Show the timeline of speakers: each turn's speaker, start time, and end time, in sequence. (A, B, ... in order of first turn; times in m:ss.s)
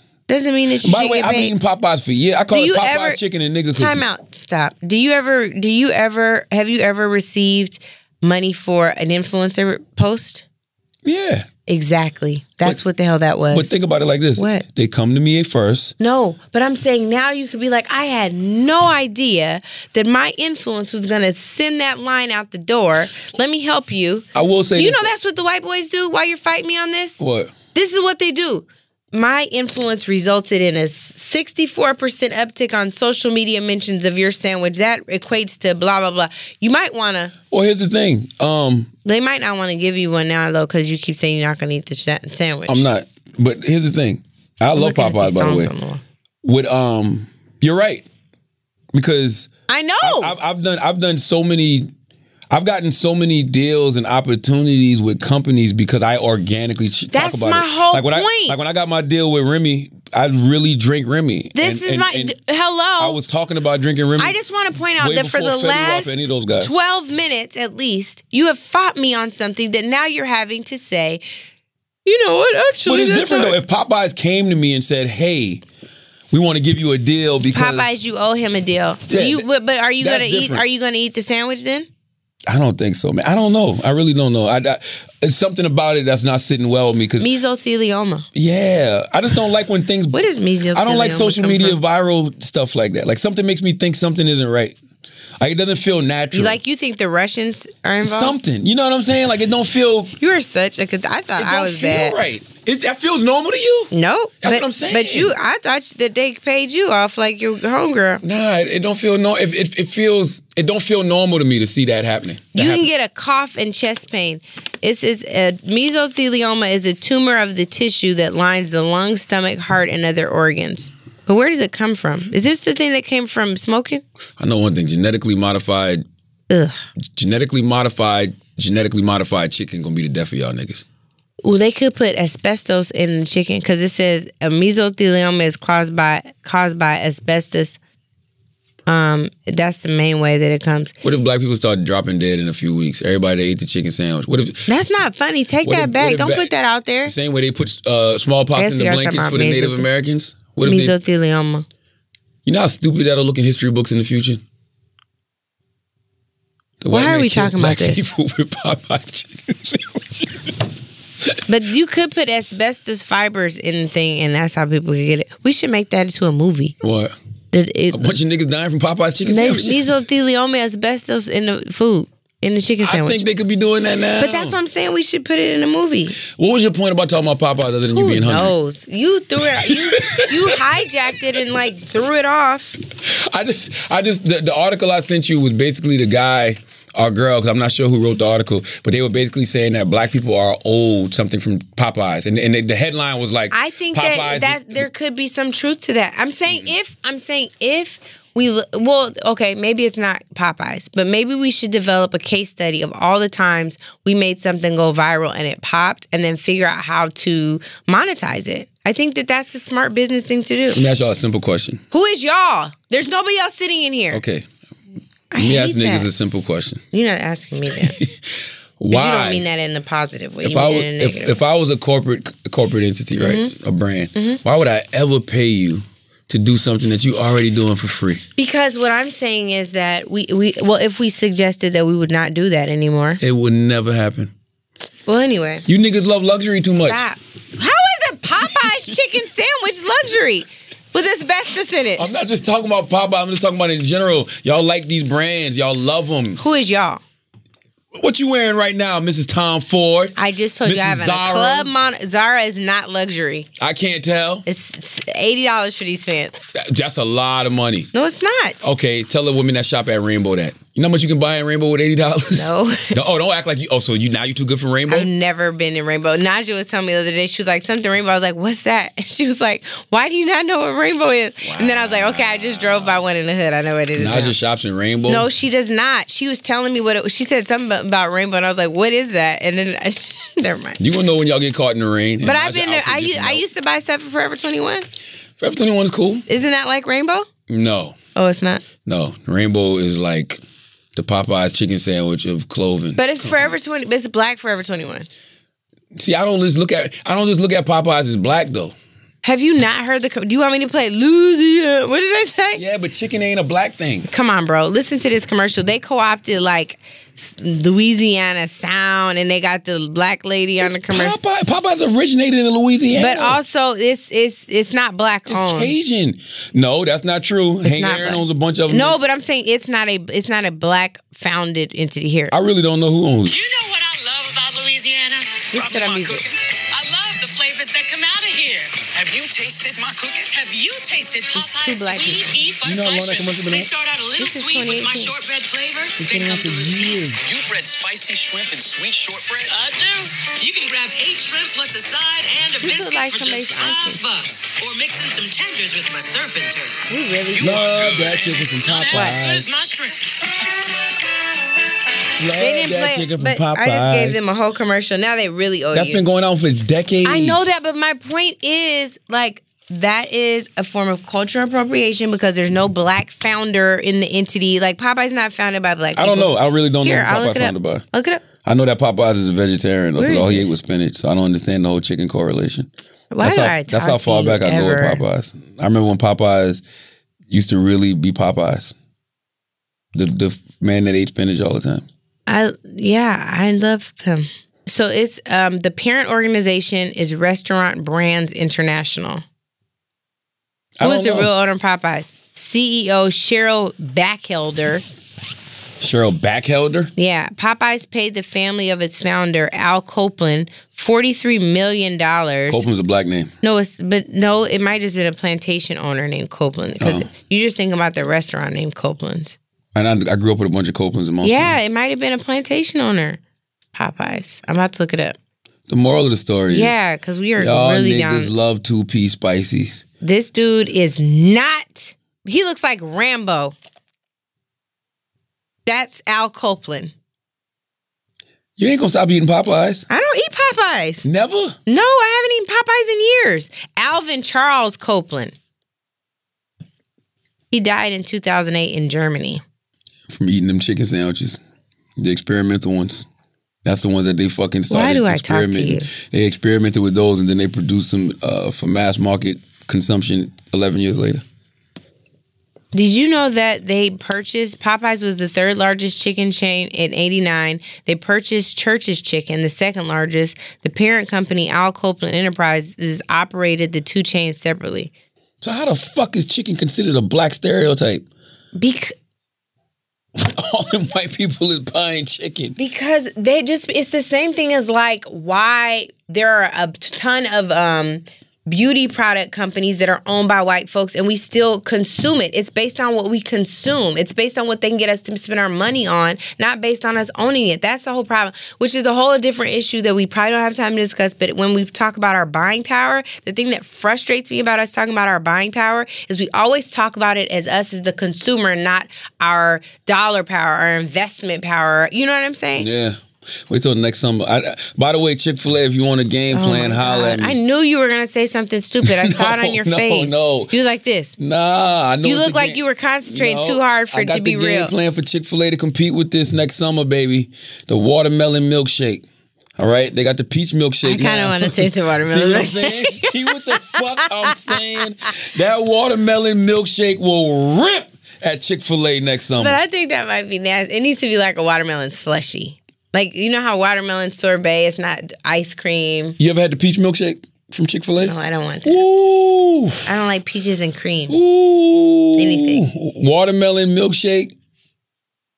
0:00.3-0:01.5 A
0:00.8-0:04.1 B
0:02.5-0:03.2 A
0:03.7-0:10.4 A
0:11.0-0:11.5 B
0:11.7-0:13.8 A
0:13.5-0:15.9 B
0:14.4-0:14.6 A
0:16.0-0:27.2 A
0:24.3-0:25.1 B
0:27.2-0:27.5 B
0:27.7-0:37.3 A
0:37.5-0:38.9 B
0:39.0-0:42.8 A
0:42.7-0:45.7 B
0:44.7-0:46.0 A
0:46.4-0:48.0 B
0:48.9-0:49.5 B
0:49.7-0:50.3 A
0:50.0-0:51.9 B
0:52.5-1:02.3 B
0:57.1-0:58.6 A
1:01.5-1:03.2 A
1:03.0-1:04.4 B
1:04.2-1:11.2 A
1:05.0-1:06.7 B
1:12.0-1:13.6 A
1:12.8-1:15.6 B
1:16.3-1:17.9 B
1:17.5-1:21.9 A
1:19.1-1:19.4 B
1:20.0-1:20.6 B
1:22.5-1:27.3 B
1:27.2-1:28.3 A
1:28.3-1:30.2 B
1:30.1-1:31.8 A
1:30.7-1:34.8 B
1:35.4-1:36.6 B
1:36.3-1:38.4 A
1:38.0-1:40.1 B
1:40.2-1:42.2 A
1:41.4-1:45.3 B
1:43.9-1:48.2 A
1:48.2-1:52.8 B
1:52.5-2:04.0 A
2:04.4-2:06.0 B
2:06.5-2:06.8 A
2:07.2-2:10.8 B
2:11.4-2:17.8 A
2:18.9-2:20.9 A
2:21.0-2:24.7 B
2:24.7-2:27.1 A
2:25.6-2:26.5 B
2:27.0-2:31.0 B
2:28.5-2:29.9 A
2:30.6-2:31.6 A
2:32.4-2:34.4 B
2:36.8-2:40.4 B
2:36.9-2:38.1 A
2:41.5-2:46.8 A
2:46.8-2:47.1 B
2:47.5-2:48.0 A
2:47.9-2:50.0 B
2:49.2-2:53.2 A
2:52.8-2:54.6 B
2:54.2-2:56.2 A
2:56.2-2:58.5 B
2:57.9-3:02.8 A
2:59.5-3:00.6 B
3:03.0-3:14.9 B
3:13.5-3:30.8 A
3:30.7-3:31.8 B
3:31.9-3:34.2 A
3:34.1-3:34.4 B
3:35.3-3:36.1 A
3:35.4-3:36.8 B
3:36.9-3:38.0 A
3:38.8-3:39.4 B
3:38.9-3:41.4 A
3:40.4-3:48.2 B
3:43.2-3:43.5 A
3:44.1-3:44.4 A
3:48.4-3:53.2 A
3:53.2-3:54.3 B
3:55.0-3:55.7 A
3:55.7-3:57.0 B
3:56.7-4:02.1 A
4:02.0-4:06.4 B
4:06.4-4:07.0 A
4:08.0-4:11.7 B
4:10.2-4:13.5 A
4:13.6-4:14.4 B
4:14.4-4:16.4 A
4:16.5-4:17.9 B
4:17.9-4:18.7 A
4:18.6-4:25.1 B
4:22.3-4:23.0 A
4:24.9-4:34.3 A
4:31.4-4:33.0 B
4:34.0-4:35.3 B
4:35.0-4:40.8 A
4:40.8-4:43.4 B
4:42.2-4:44.8 A
4:45.4-4:46.2 B
4:46.3-4:47.3 A
4:47.5-4:48.0 B
4:48.1-4:48.6 A
4:48.8-4:50.4 B
4:51.0-4:53.5 B
4:53.0-4:55.1 A
4:55.9-4:58.7 B
4:59.2-5:02.6 A
5:02.5-5:04.1 B
5:04.1-5:11.2 A
5:10.6-5:13.4 B
5:12.9-5:15.7 A
5:15.3-5:19.0 B
5:17.6-5:22.3 A
5:22.3-5:23.4 B
5:23.2-5:50.5 C
5:25.5-5:26.2 A
5:31.3-5:32.3 A
5:32.6-5:33.7 B
5:34.2-5:35.1 A
5:36.0-5:37.2 B
5:42.6-5:44.0 A
5:46.9-5:47.6 A
5:47.4-5:49.5 B
5:48.9-5:49.2 A
5:52.2-5:54.2 B
5:52.4-5:56.0 A
5:55.7-5:57.6 B
5:57.0-6:08.2 A
6:06.0-6:07.8 B
6:08.4-6:12.7 B
6:10.0-6:10.6 A
6:13.1-6:15.0 A
6:13.2-6:16.6 B
6:17.3-6:18.7 B
6:19.9-6:21.8 B
6:22.3-6:29.2 A
6:30.8-6:31.3 B
6:30.8-6:34.8 A
6:35.8-6:36.9 B
6:37.0-6:42.6 A
6:42.5-6:43.3 B
6:43.4-6:49.4 A
6:46.8-6:47.1 B
6:49.7-6:51.6 B
6:51.2-6:53.2 A
6:53.8-6:55.2 A
6:55.7-6:56.8 B
6:56.5-6:58.3 A
6:57.4-6:59.8 B
7:00.0-7:03.6 A
7:05.6-7:06.9 A
7:08.6-7:09.9 B
7:09.9-7:11.0 A
7:11.0-7:11.6 B
7:11.7-7:15.3 A
7:17.5-7:19.4 A
7:20.1-7:21.4 B
7:22.0-7:23.0 B
7:23.6-7:31.2 B
7:24.7-7:25.9 A
7:32.7-7:44.9 A
7:45.4-7:48.0 B
7:48.5-7:48.9 A
7:50.2-7:52.6 B
7:52.6-8:22.7 A
8:22.6-8:27.4 B
8:26.3-8:31.2 A
8:28.8-8:30.5 B
8:31.2-8:39.0 B
8:32.0-8:34.7 A
8:39.6-8:49.6 B
8:40.8-8:44.8 A
8:49.4-8:56.2 A
8:56.2-8:58.1 B
8:58.0-8:58.8 A
8:58.6-8:59.9 B
8:59.8-9:01.2 A
9:01.1-9:04.3 B
9:02.2-9:02.6 A